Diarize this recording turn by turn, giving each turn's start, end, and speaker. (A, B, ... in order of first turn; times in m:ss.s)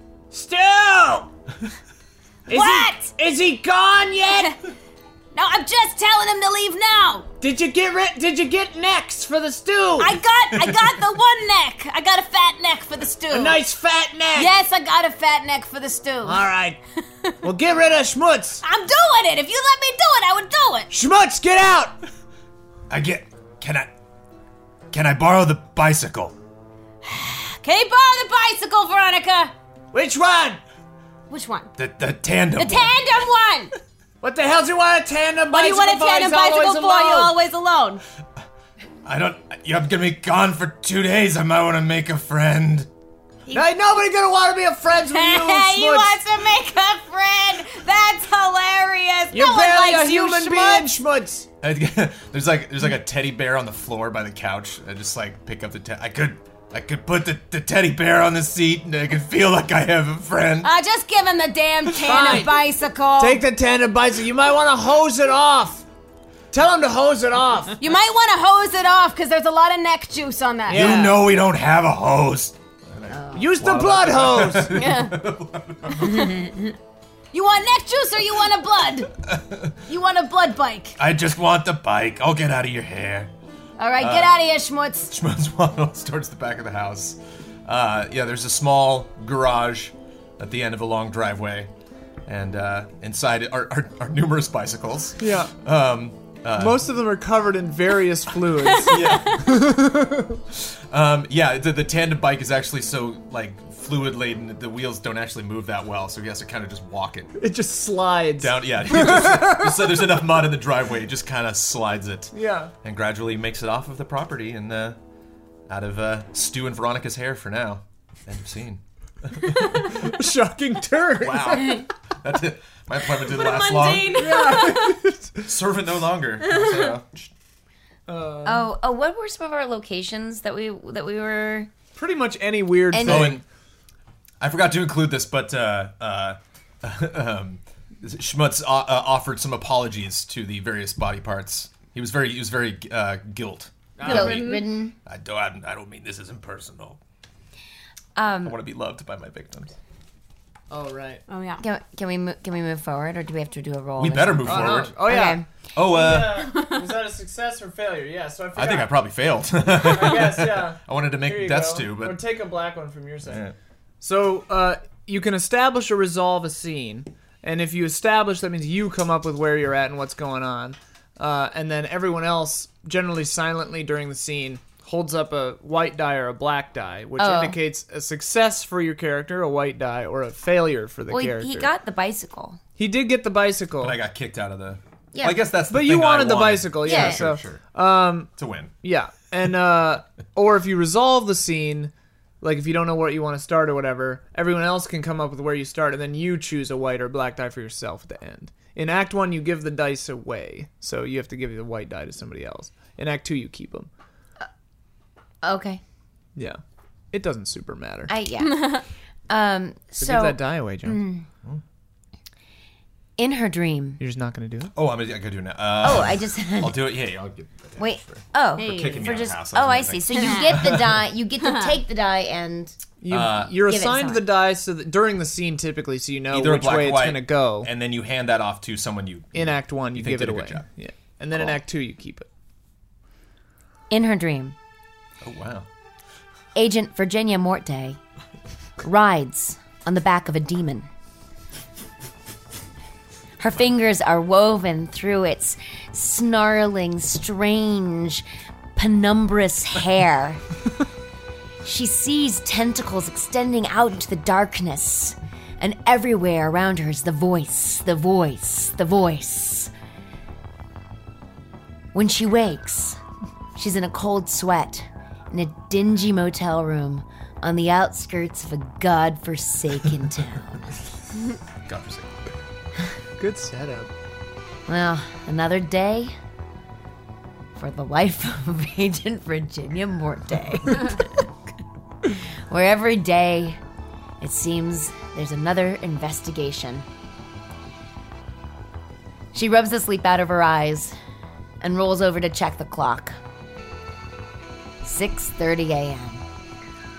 0:00.3-0:01.3 A
0:02.5-0:04.5 A
0:02.5-0:03.0 B
0:04.3-0:04.6 B
0:05.3-0:07.3 B
0:07.4-0:10.2 A
0:10.0-0:13.6 B
0:10.5-0:10.9 C
0:13.3-0:14.5 A
0:14.3-0:16.5 B
0:16.2-0:16.8 A
0:17.4-0:18.6 A
0:18.6-0:20.9 B
0:20.9-0:22.0 A
0:22.9-0:23.9 C
0:24.9-0:26.3 C
0:27.0-0:29.5 B
0:29.9-0:30.6 A
0:31.3-0:31.7 B
0:31.8-0:33.0 C
0:32.6-0:33.7 B
0:34.2-0:37.3 A
0:35.5-0:38.0 B
0:39.0-0:42.9 C
0:43.5-0:46.2 A
0:45.0-0:50.9 B
0:49.3-0:51.5 A
0:51.6-1:00.7 C
1:00.6-1:03.4 B
1:02.0-1:02.6 A
1:03.2-1:05.8 A
1:06.5-1:07.8 A
1:07.8-1:11.1 B
1:10.7-1:11.1 A
1:10.7-1:16.4 C
1:13.1-1:13.5 D
1:13.3-1:14.7 A
1:14.7-1:15.1 E
1:16.0-1:16.6 D
1:17.3-1:19.1 B
1:19.2-1:19.8 C
1:19.9-1:21.0 B
1:21.0-1:23.3 C
1:23.8-1:25.1 B
1:24.0-1:24.4 C
1:25.1-1:31.7 C
1:32.2-1:36.8 C
1:35.2-1:35.5 A
1:36.6-1:40.4 A
1:38.8-1:39.6 C
1:40.5-1:47.3 C
1:47.4-1:50.0 A
1:48.4-1:55.0 C
1:52.3-1:52.7 A
1:55.7-2:00.1 C
1:59.8-2:01.8 A
2:01.2-2:04.5 C
2:03.2-2:05.0 E
2:04.1-2:05.4 A
2:05.4-2:07.3 C
2:06.4-2:06.9 E
2:08.1-2:08.7 A
2:08.4-2:11.7 D
2:12.0-2:13.4 A
2:12.9-2:13.4 D
2:13.0-2:13.4 C
2:14.4-2:24.4 C
2:24.0-2:24.5 A
2:24.0-2:24.9 D
2:24.1-2:24.7 E
2:25.0-2:27.0 C
2:28.2-2:28.6 D
2:28.4-2:29.8 C
2:30.7-2:31.2 A
2:31.3-2:31.6 E
2:31.6-2:35.5 D
2:34.0-2:35.0 C
2:34.4-2:38.9 A
2:35.7-2:36.5 C
2:36.5-2:36.8 E
2:38.6-2:42.2 C
2:39.6-2:43.4 A
2:43.2-2:43.5 C
2:44.0-3:01.7 A
2:57.2-2:57.6 D
3:01.1-3:02.6 D
3:02.8-3:04.0 A
3:03.8-3:07.6 C
3:05.1-3:05.4 D
3:05.7-3:08.3 A
3:06.8-3:07.3 D
3:08.4-3:08.7 C
3:08.8-3:23.9 A
3:25.4-3:25.8 D
3:27.1-3:28.1 A
3:28.1-3:31.3 D
3:28.4-3:28.8 E
3:30.0-3:31.1 A
3:33.2-3:34.0 D
3:34.0-3:34.7 A
3:34.8-3:41.0 C
3:35.8-3:36.8 D
3:37.8-3:42.8 D
3:38.6-3:39.1 E
3:40.1-3:40.6 E
3:41.4-3:41.8 E
3:43.0-3:47.7 A
3:43.1-3:43.6 C
3:43.5-3:44.3 D
3:46.3-3:50.6 C
3:49.3-3:52.3 A
3:53.9-3:54.6 D
3:55.2-3:55.7 C
3:56.5-3:58.0 D
3:58.8-4:00.9 D
4:03.4-4:08.2 D
4:08.8-4:10.4 D
4:11.6-4:19.7 D
4:21.9-4:23.0 D
4:23.6-4:30.7 D
4:31.6-4:32.1 C
4:33.2-4:33.9 A
4:34.7-4:36.1 D
4:37.6-4:41.3 D
4:42.0-4:43.6 D
4:44.2-4:46.8 D
4:49.3-4:50.9 D
4:51.6-4:53.2 D
4:54.8-4:56.2 D